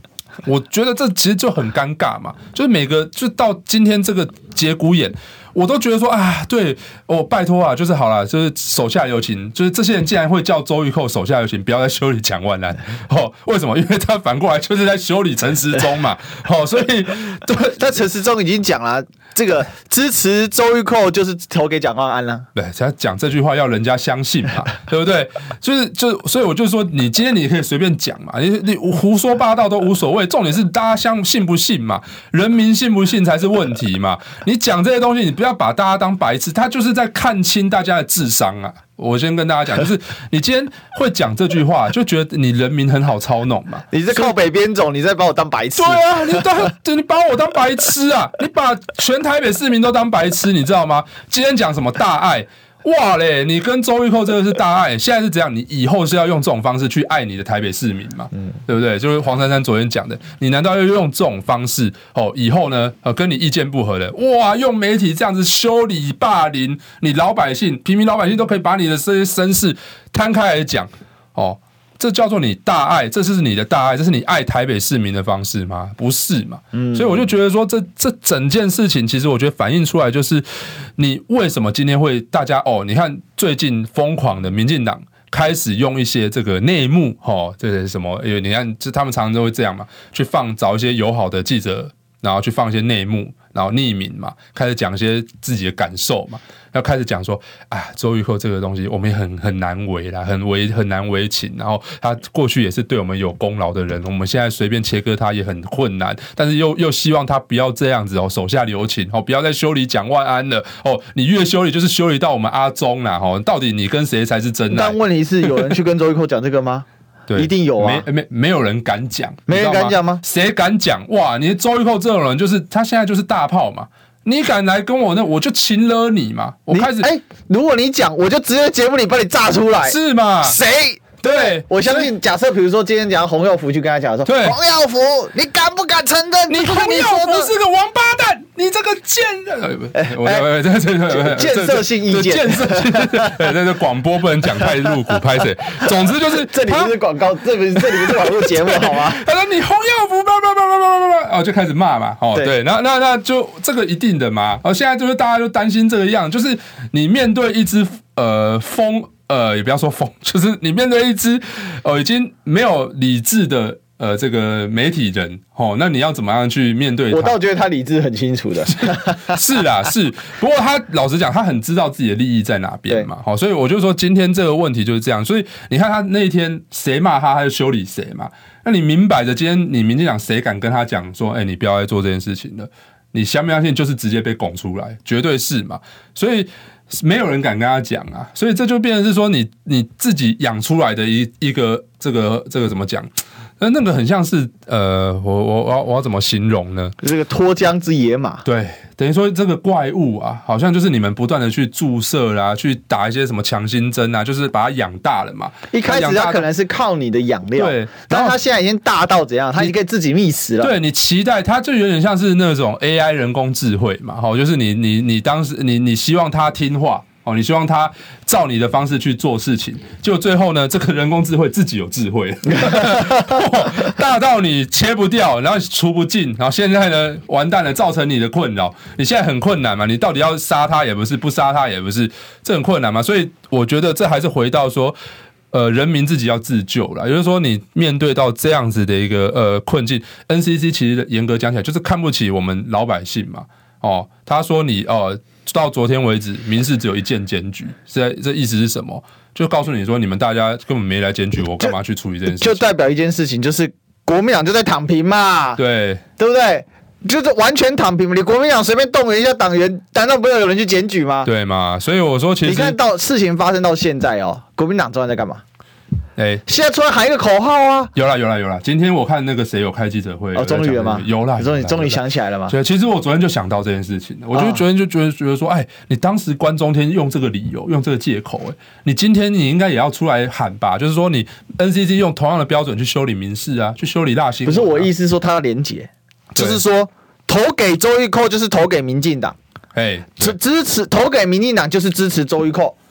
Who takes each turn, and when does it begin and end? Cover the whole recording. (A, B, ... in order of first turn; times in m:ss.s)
0:00.4-0:18.0 A
0:17.8-0:22.5 B
0:22.5-0:44.4 A
0:43.9-0:46.4 B
0:45.8-1:55.0 A
1:16.7-1:17.2 B
1:54.7-1:58.0 B
1:57.3-2:07.1 A
1:59.5-2:00.2 B
2:06.7-2:17.5 B
2:09.8-2:10.6 A
2:11.2-2:12.1 A
2:14.2-2:14.6 A
2:16.5-2:26.9 A
2:19.9-2:20.5 B
2:21.1-2:23.4 B
2:26.3-2:29.2 B
2:27.8-2:47.4 A
2:47.1-2:49.4 B
2:48.7-3:16.9 A
3:17.0-3:18.4 B
3:18.4-3:26.4 A
3:25.7-3:30.7 B
3:27.6-3:28.4 A
3:30.6-3:55.0 A
3:55.5-4:12.7 A
4:12.3-4:15.6 B
4:15.6-4:16.0 A
4:16.2-4:21.3 B
4:21.2-4:22.8 A
4:22.4-4:25.4 B
4:26.2-4:26.4 A
4:26.5-4:27.9 B
4:27.9-4:44.9 A
4:30.3-4:32.5 B
4:34.3-4:34.6 B
4:44.4-4:49.4 B
4:49.7-4:50.4 A
4:50.2-4:52.8 B